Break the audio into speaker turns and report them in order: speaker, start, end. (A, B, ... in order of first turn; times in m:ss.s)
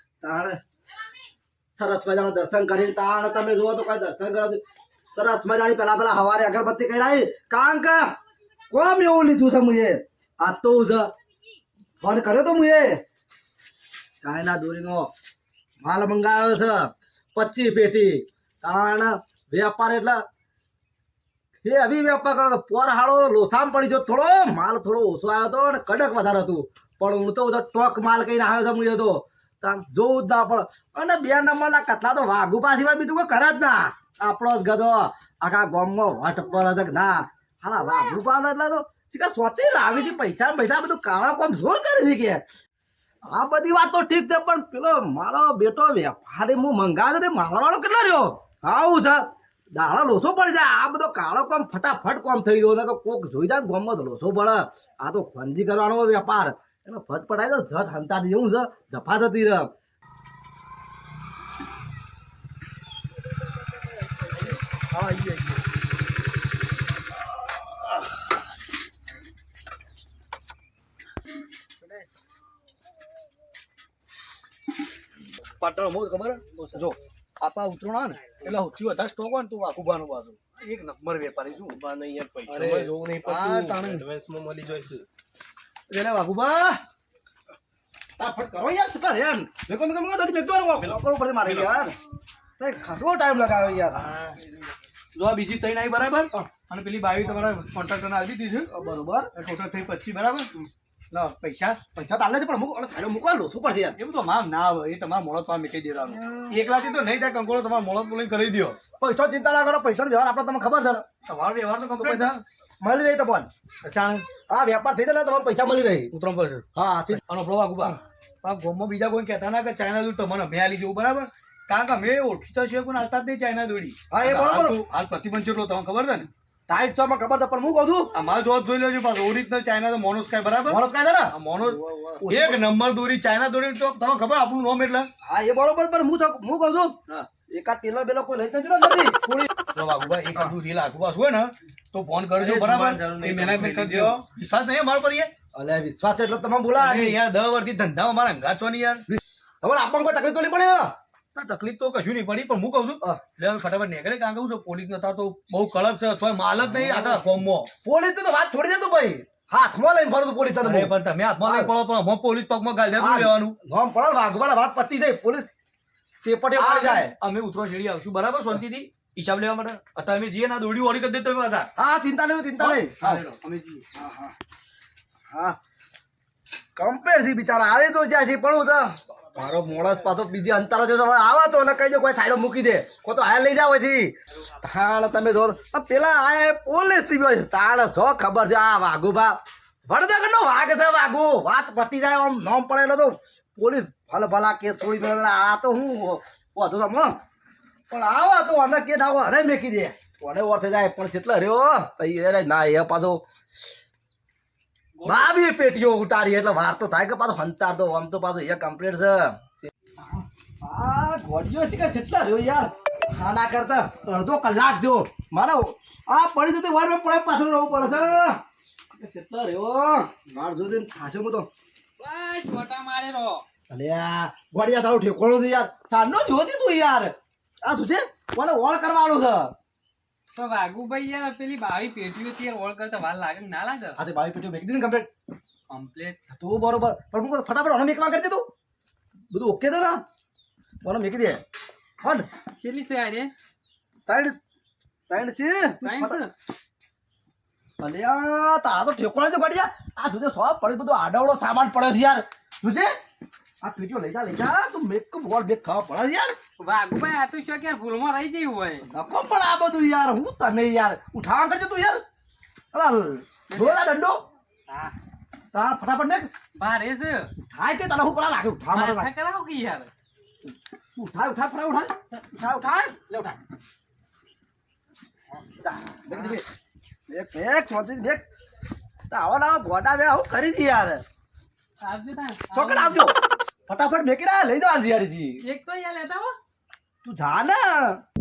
0:00.2-0:00.6 A
0:01.8-0:08.2 A
0:08.7-0:11.1 A
0:12.0-0:13.0 A
0:14.2-0:15.1 A
0:15.8-0:20.2 A
0:21.6-0:42.4 A
0:43.3-0:59.7 A
1:04.8-1:05.6 A
1:15.6-1:21.8 B
1:16.6-1:16.8 C
1:21.7-1:25.0 C
1:22.5-1:23.7 B
1:23.2-1:24.0 A
1:25.9-1:26.6 B
1:28.2-1:31.9 A
1:30.8-1:31.8 B
1:32.6-1:34.1 A
1:35.2-1:38.7 B
1:38.7-1:39.3 A
1:39.3-1:40.5 B
1:41.1-1:41.8 B
1:41.9-1:44.0 A
1:44.0-1:48.8 B
1:46.1-1:46.6 A
1:49.0-1:51.1 A
1:51.2-1:52.4 B
1:52.0-1:53.5 A
1:53.8-1:54.2 B
1:54.5-1:56.1 A
1:56.1-2:06.3 B
1:56.8-1:57.2 A
2:04.1-2:04.8 A
2:06.7-2:08.1 A
2:08.1-2:10.8 B
2:10.6-2:12.6 A
2:11.3-2:15.1 B
2:15.2-2:19.5 A
2:19.7-2:25.3 B
2:22.4-2:24.1 A
2:22.8-2:24.2 C
2:25.5-2:27.2 A
2:26.8-2:29.0 B
2:29.1-2:30.9 A
2:31.3-2:37.7 B
2:36.7-2:37.2 A
2:37.8-2:41.7 A
2:40.6-2:43.6 B
2:43.0-2:45.5 A
2:46.2-2:47.1 A
2:46.6-2:51.7 B
2:51.8-2:53.2 A
2:52.6-2:53.8 B
2:53.9-2:54.3 A
2:55.3-2:55.6 A
2:56.8-3:17.2 A
3:17.9-3:23.2 A
3:25.0-3:25.3 D
3:25.0-3:38.4 A
3:39.0-3:41.5 A
3:42.0-3:43.4 D
3:43.7-3:49.5 A
3:50.3-3:54.0 D
3:54.0-3:55.1 A
3:55.7-3:56.2 D
3:56.3-3:58.5 A
3:59.3-4:00.0 A
4:00.8-4:01.4 A
4:02.0-4:02.3 A
4:02.6-4:03.3 D
4:04.1-4:04.4 A
4:05.1-4:06.2 A
4:05.8-4:06.3 D
4:07.8-4:13.0 A
4:13.6-4:16.4 A
4:16.6-4:18.9 D
4:18.9-4:22.0 A
4:22.7-4:24.2 A
4:23.5-4:23.8 D
4:24.7-4:25.0 D
4:25.5-4:26.3 A
4:26.6-4:27.3 D
4:27.4-4:29.1 A
4:28.7-4:29.9 D
4:30.9-4:33.4 A
4:35.4-4:36.4 A
4:37.1-4:38.2 A
4:39.1-4:41.0 A
4:41.8-4:43.0 D
4:42.5-4:43.2 A
4:43.7-4:45.4 A
4:45.4-4:46.3 D
4:47.0-4:48.0 A